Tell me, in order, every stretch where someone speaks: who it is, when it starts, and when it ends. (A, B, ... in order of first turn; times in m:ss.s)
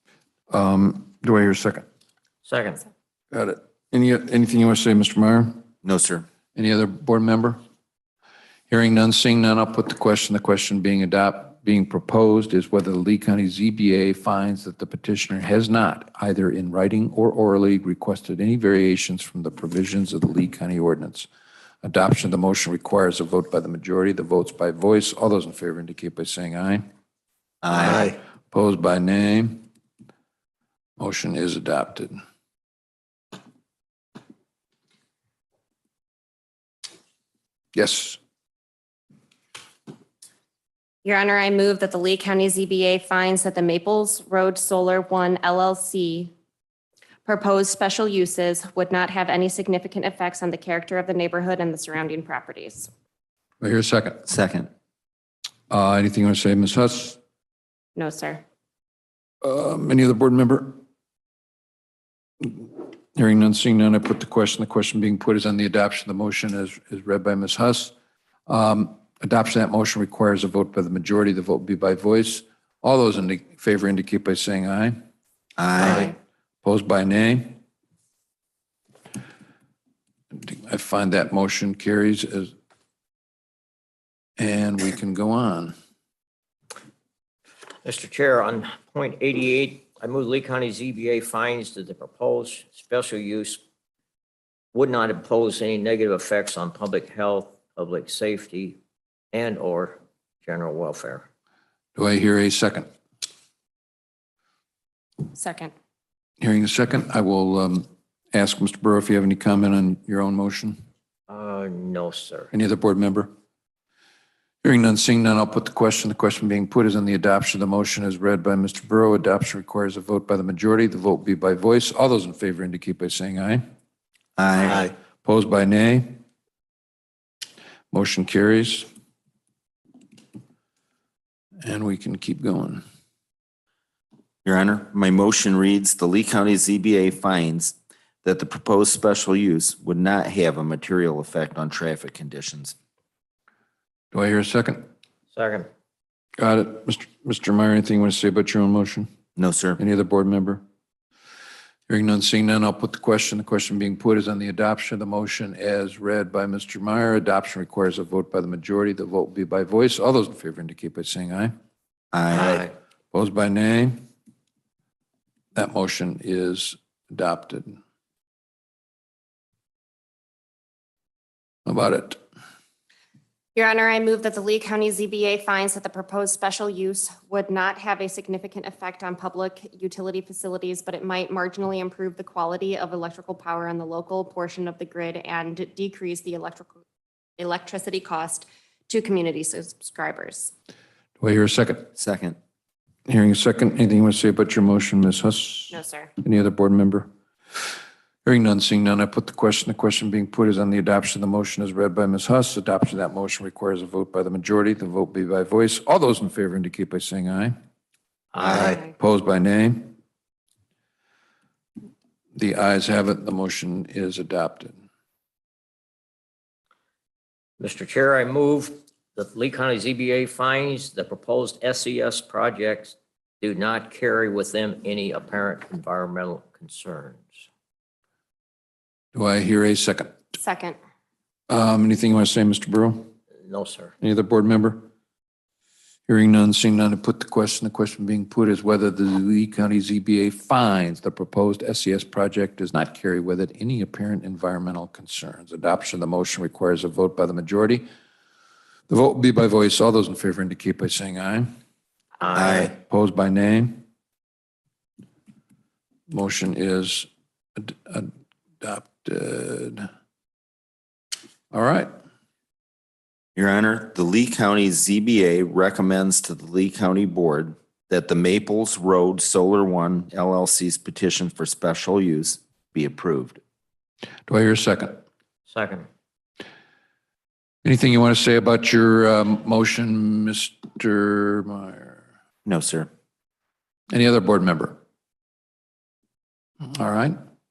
0:00.5-0:01.8 A
0:02.4-0:02.8 B
0:03.3-0:05.6 A
0:05.8-0:06.3 C
0:06.6-0:07.6 A
0:08.7-0:21.3 A
0:21.8-0:26.8 A
0:27.6-0:28.2 C
0:27.9-0:29.6 A
0:31.0-0:32.2 A
0:37.8-0:38.2 A
0:41.0-0:46.3 D
0:47.2-0:52.9 D
0:53.6-0:54.2 A
0:54.3-0:54.7 C
0:55.7-0:57.2 A
0:58.0-0:58.4 D
0:59.4-1:00.8 A
1:02.4-1:07.9 A
1:08.5-1:15.0 A
1:15.6-1:16.1 C
1:15.8-1:16.1 A
1:16.6-1:17.6 A
1:20.3-1:22.5 A
1:24.4-1:25.7 A
1:27.8-1:33.6 B
1:34.7-1:38.8 B
1:39.3-1:41.2 B
1:42.0-1:42.9 A
1:45.3-1:45.7 D
1:46.4-1:50.8 A
1:51.3-1:52.5 B
1:52.5-1:53.3 A
1:54.6-2:03.6 A
2:04.4-2:04.9 C
2:05.2-2:06.2 A
2:07.9-2:08.9 A
2:11.6-2:12.8 A
2:14.4-2:22.8 C
2:24.1-2:24.8 A
2:25.3-2:25.7 B
2:26.4-2:29.1 A
2:29.4-2:29.8 C
2:29.8-2:30.6 A
2:31.9-2:41.5 A
2:42.1-2:42.7 C
2:42.3-2:42.7 B
2:43.1-2:44.0 A
2:45.6-2:47.8 A
2:51.7-2:52.2 A
2:53.6-3:06.8 D
3:07.4-3:10.5 D
3:11.2-3:11.9 A
3:12.0-3:12.4 C
3:13.1-3:17.1 A
3:15.7-3:16.1 D
3:18.2-3:27.5 A
3:28.3-3:28.7 B
3:28.4-3:28.8 C
3:29.0-3:29.9 A
3:32.4-3:34.8 A
3:37.6-3:47.3 B
3:49.1-3:50.1 A
3:50.4-3:50.8 D
3:51.5-3:53.1 A
3:53.4-3:53.9 B
3:54.0-3:54.8 A
3:56.1-4:07.9 A
4:08.9-4:11.5 A
4:12.2-4:12.7 B
4:12.3-4:12.7 C
4:12.8-4:13.8 A
4:16.1-4:18.1 A
4:18.6-4:19.9 A
4:21.5-4:21.9 A
4:23.4-4:33.4 C
4:34.3-4:35.0 A
4:35.5-4:35.9 B
4:37.6-4:42.0 A
4:42.4-4:42.9 C
4:43.9-4:44.8 A
4:46.6-4:47.1 A